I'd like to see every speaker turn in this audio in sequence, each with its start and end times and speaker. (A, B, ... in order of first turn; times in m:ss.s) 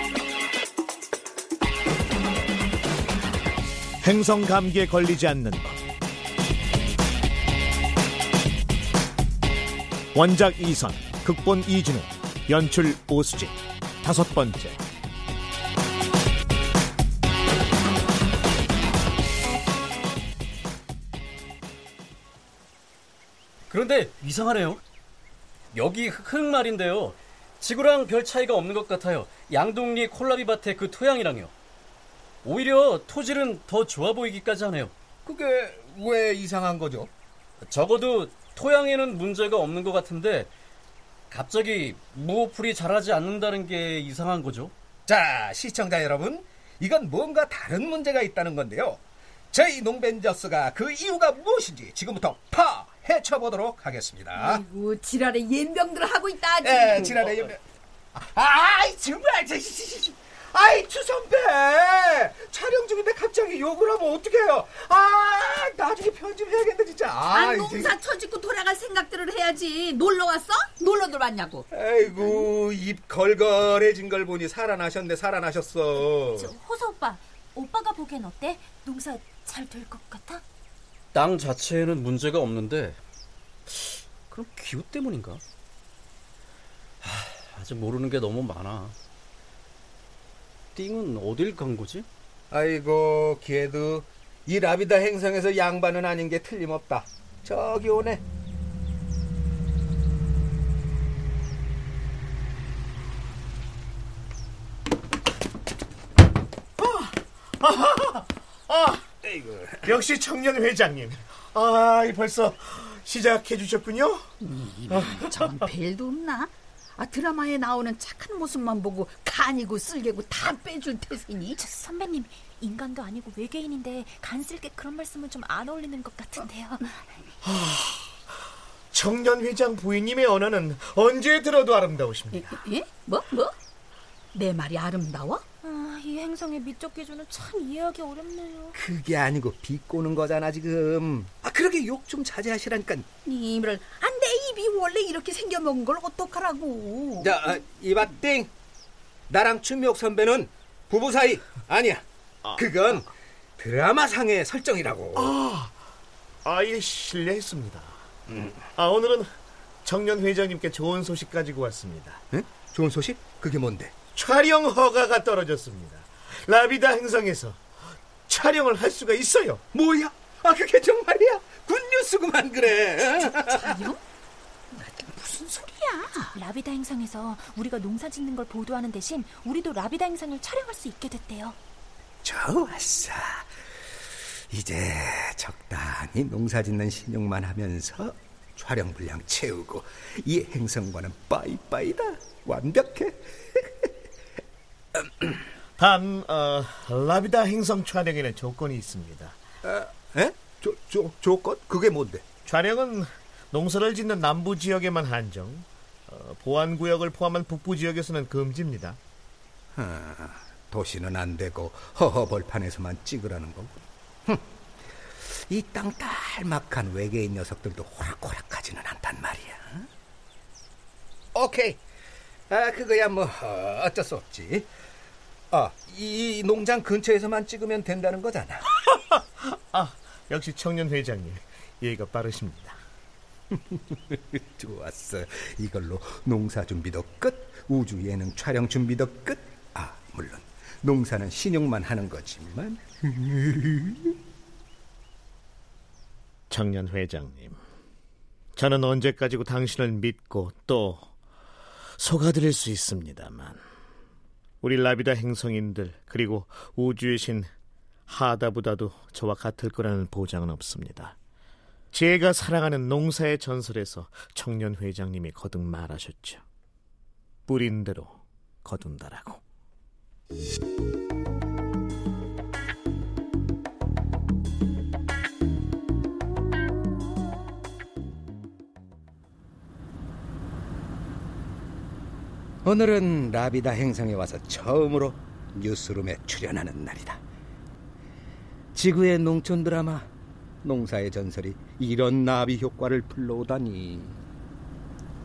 0:04.0-0:05.8 A
0:10.1-0:14.8 A
0:23.7-0:24.8 B
0:25.7-0:31.5 B
0:32.4-0:34.9 B
0:35.2-0:37.1 C
0:37.7-0:40.5 B
0:41.3-0:44.7 B
0:45.1-0:49.0 C
0:49.5-0:54.6 C
0:54.3-0:57.1 D
0:56.6-0:57.6 C
0:58.2-1:08.0 C
1:07.2-1:11.7 D
1:11.7-1:16.5 C
1:16.0-1:20.4 E
1:21.1-1:23.0 B
1:23.7-1:25.4 B
1:27.0-1:29.0 B
1:30.8-1:32.1 B
1:32.5-1:38.2 C
1:46.8-1:49.0 A
1:49.2-1:49.9 C
1:49.8-1:54.3 A
1:54.4-2:01.7 D
1:54.9-1:55.7 A
2:01.6-2:06.9 E
2:07.4-2:08.1 A
2:08.9-2:12.5 A
2:12.3-2:13.5 D
2:14.3-2:15.4 D
2:15.6-2:18.8 E
2:18.7-2:23.0 C
2:23.2-2:27.3 D
2:27.2-2:28.5 C
2:29.3-2:32.0 C
2:32.6-2:35.3 C
2:35.2-2:35.7 A
2:36.4-2:38.0 A
2:38.3-2:38.5 C
2:38.8-2:39.3 A
2:39.8-2:42.2 A
2:42.3-2:43.9 C
2:44.1-2:47.6 A
2:48.3-2:49.6 A
2:49.7-2:53.9 C
2:53.2-2:53.9 D
2:55.0-2:56.3 D
2:56.3-3:01.6 E
3:02.2-3:03.4 C
3:04.5-3:13.9 C
3:15.8-3:19.4 A
3:19.6-3:22.3 C
3:22.4-3:29.0 A
3:29.8-3:33.8 C
3:35.5-3:39.8 C
3:41.3-3:41.8 C
3:42.5-3:44.7 C
3:45.5-3:48.6 C
3:48.9-3:52.8 A
3:53.5-4:04.1 C
4:06.5-4:07.6 A
4:08.6-4:11.1 A
4:12.0-4:13.6 A
4:14.6-4:17.5 A
4:18.1-4:21.2 A
4:21.9-4:26.4 A
4:27.5-4:29.4 A
4:42.6-4:47.2 C
4:48.8-4:50.1 C
4:50.6-4:54.2 C